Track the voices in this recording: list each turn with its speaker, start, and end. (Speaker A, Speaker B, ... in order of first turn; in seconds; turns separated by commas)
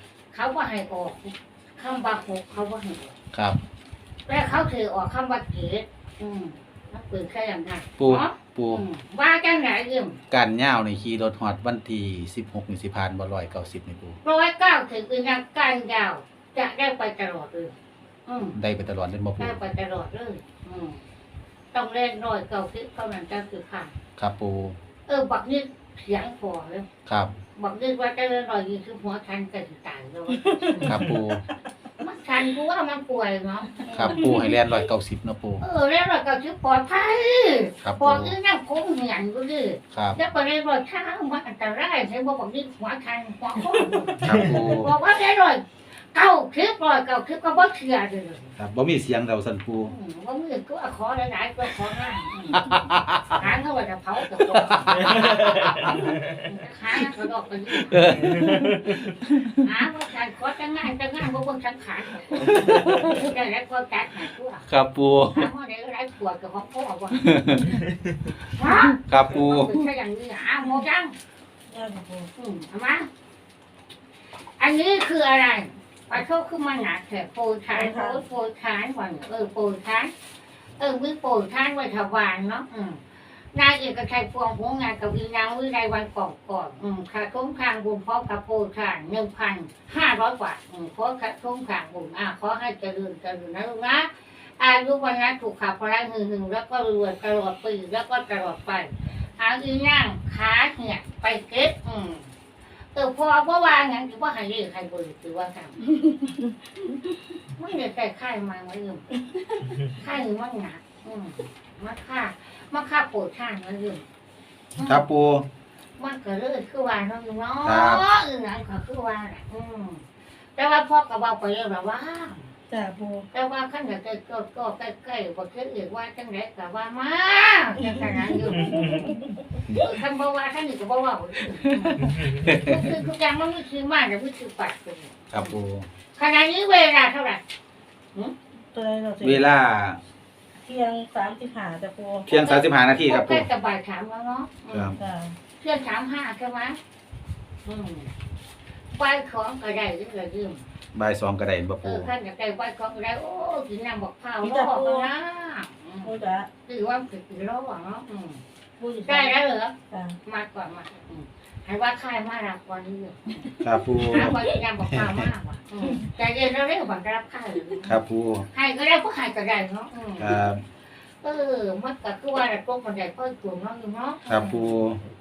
Speaker A: 0.3-3.1, Speaker A: 4.3-10.2, Speaker B: 8.0-8.8, Speaker B: 10.3-14.2, Speaker A: 14.2-17.7, Speaker A: 18.2-18.6, Speaker B: 18.5-19.6, Speaker A: 19.4-21.0, Speaker A: 21.7-23.9, Speaker B: 24.2-24.8, Speaker A: 25.1-26.9, Speaker B: 27.1-27.3, Speaker A: 27.6-31.0, Speaker C: 30.6-31.0, Speaker B: 30.8-31.4, Speaker A: 32.0-34.4, Speaker B: 33.9-35.6, Speaker A: 35.6-48.5, Speaker B: 37.8-38.3, Speaker B: 44.2-44.9, Speaker B: 48.6-49.9, Speaker A: 49.9-52.8, Speaker B: 52.5-53.5, Speaker A: 53.3-58.1, Speaker B: 54.5-56.1, Speaker B: 57.8-59.5, Speaker A: 59.6-64.7, Speaker B: 62.5-63.2, Speaker B: 64.7-65.5, Speaker A: 65.3-67.4, Speaker B: 67.2-67.8, Speaker A: 68.5-71.1, Speaker B: 69.1-69.9, Speaker C: 71.7-72.3, Speaker A: 72.4-73.1, Speaker A: 74.6-80.1, Speaker C: 77.7-78.2, Speaker A: 80.8-83.0, Speaker A: 83.5-102.3, Speaker A: 102.9-105.8, Speaker A: 107.6-109.1, Speaker A: 109.9-114.0, Speaker A: 114.8-115.0, Speaker B: 114.8-115.5, Speaker A: 116.0-120.0, Speaker B: 117.6-118.0, Speaker A: 120.6-122.5, Speaker C: 122.7-123.2, Speaker A: 123.3-129.1, Speaker C: 127.8-129.4, Speaker A: 129.7-135.5, Speaker B: 132.0-132.9, Speaker B: 135.3-135.9, Speaker A: 136.2-137.4, Speaker C: 138.7-139.4, Speaker B: 139.2-140.0, Speaker C: 140.6-142.3, Speaker B: 142.3-143.5, Speaker A: 142.3-144.9, Speaker B: 144.7-145.0, Speaker C: 144.9-145.3, Speaker A: 145.6-146.8, Speaker A: 147.6-148.1, Speaker A: 148.9-150.7, Speaker B: 150.9-152.1, Speaker A: 151.8-156.1, Speaker C: 154.4-155.1, Speaker C: 156.0-156.5, Speaker A: 156.7-158.4, Speaker C: 158.8-159.3, Speaker A: 159.0-163.5, Speaker C: 159.9-160.2, Speaker B: 163.6-164.4, Speaker A: 164.1-168.0, Speaker B: 167.8-168.5, Speaker A: 168.5-170.5, Speaker B: 170.2-170.6, Speaker A: 171.2-174.7, Speaker B: 174.3-175.0